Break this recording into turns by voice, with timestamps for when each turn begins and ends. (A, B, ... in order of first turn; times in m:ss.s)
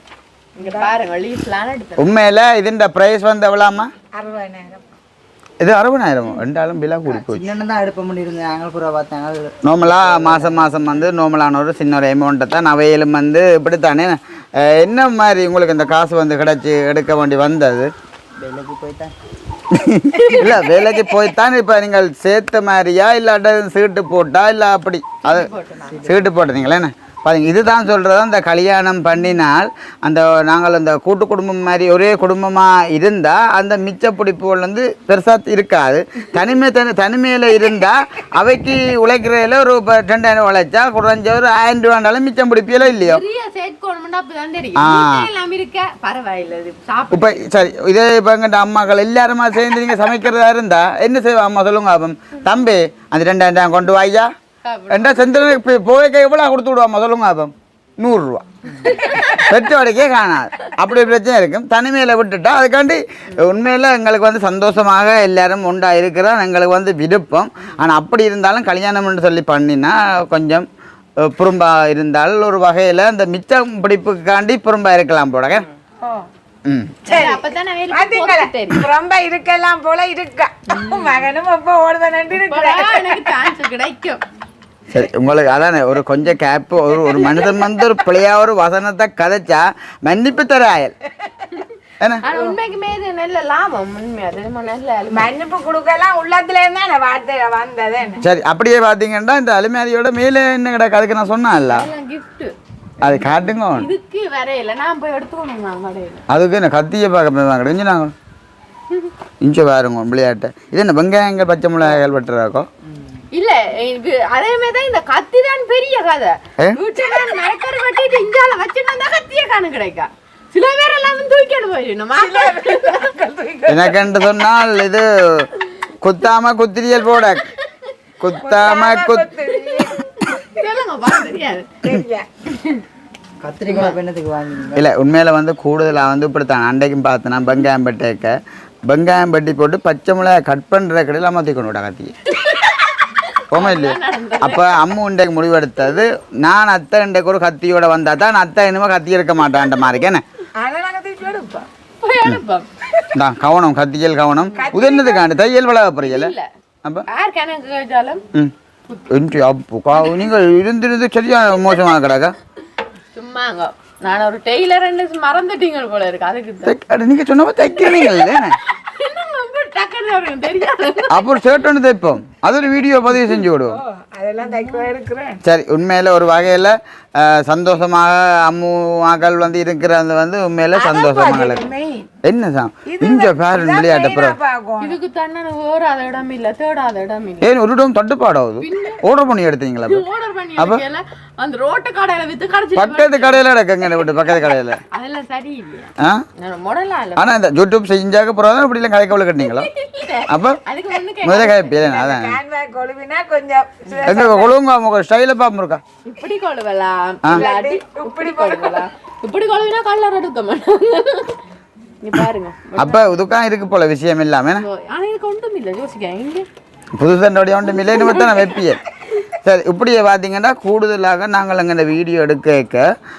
0:00.6-0:02.2 A
0:00.6-0:00.9 B
0:02.0-0:03.9 C
0:04.1-0:04.9 B
0:05.6-0:07.5 C
0:07.0-0:11.1 D
0:09.6-0:17.9 C
0:18.4-0:19.1 D
0:19.7-0:25.5 C
0:20.2-0:20.7 A
0:25.2-0:26.1 A
0:25.9-0:26.3 D
0:26.0-0:43.2 C
0:42.8-0:47.6 A
0:44.8-0:45.3 C
0:47.1-0:54.3 C
0:54.6-0:55.6 A
0:54.9-0:58.5 C
0:58.9-0:59.3 A
0:59.0-1:10.7 C
1:11.3-1:15.7 C
1:16.7-1:17.1 C
1:17.0-1:23.2 B
1:17.1-1:18.9 A
1:20.9-1:21.2 A
1:22.4-1:24.2 A
1:24.9-1:31.0 C
1:27.1-1:27.6 B
1:32.0-1:32.2 C
1:32.2-1:35.3 A
1:35.1-1:38.2 B
1:38.2-1:41.9 C
1:41.7-1:42.6 A
1:43.0-1:43.9 C
1:43.0-1:43.4 D
1:43.7-1:46.2 A
1:46.3-1:48.1 C
1:49.4-1:52.7 C
1:53.3-2:03.1 A
2:02.2-2:04.0 B
2:03.7-2:05.5 C
2:06.0-2:07.5 C
2:08.2-2:09.3 C
2:08.4-2:10.3 B
2:09.8-2:11.8 A
2:11.8-2:12.3 B
2:13.4-2:14.9 D
2:13.7-2:14.0 A
2:14.8-2:18.4 C
2:18.9-2:22.1 C
2:22.4-2:24.8 A
2:23.5-2:30.2 C
2:30.6-2:31.7 B
2:32.0-2:32.7 A
2:33.1-2:36.3 C
2:34.5-2:34.8 A
2:34.6-2:35.3 B
2:36.0-2:36.5 A
2:37.1-2:38.2 A
2:39.1-2:42.4 C
2:43.1-2:46.7 A
2:46.6-2:48.6 C
2:47.7-2:51.4 A
2:51.1-2:53.8 C
2:53.7-2:55.4 B
2:54.4-2:54.9 A
2:55.4-3:01.6 C
3:00.8-3:02.1 B
3:02.2-3:04.4 C
3:02.9-3:05.0 B
3:04.8-3:07.5 A
3:07.4-3:10.0 C
3:08.6-3:09.0 A
3:09.9-3:13.4 A
3:12.8-3:14.8 C
3:14.9-3:17.3 A
3:17.2-3:19.7 C
3:19.4-3:21.8 A
3:20.3-3:20.6 C
3:21.2-3:22.4 C
3:21.8-3:24.5 B
3:24.0-3:25.8 C
3:26.1-3:31.4 A
3:27.3-3:28.8 B
3:32.0-3:33.0 A
3:32.8-3:34.6 C
3:34.6-3:36.5 A
3:37.0-3:38.8 C
3:37.8-3:38.6 A
3:39.4-3:42.8 C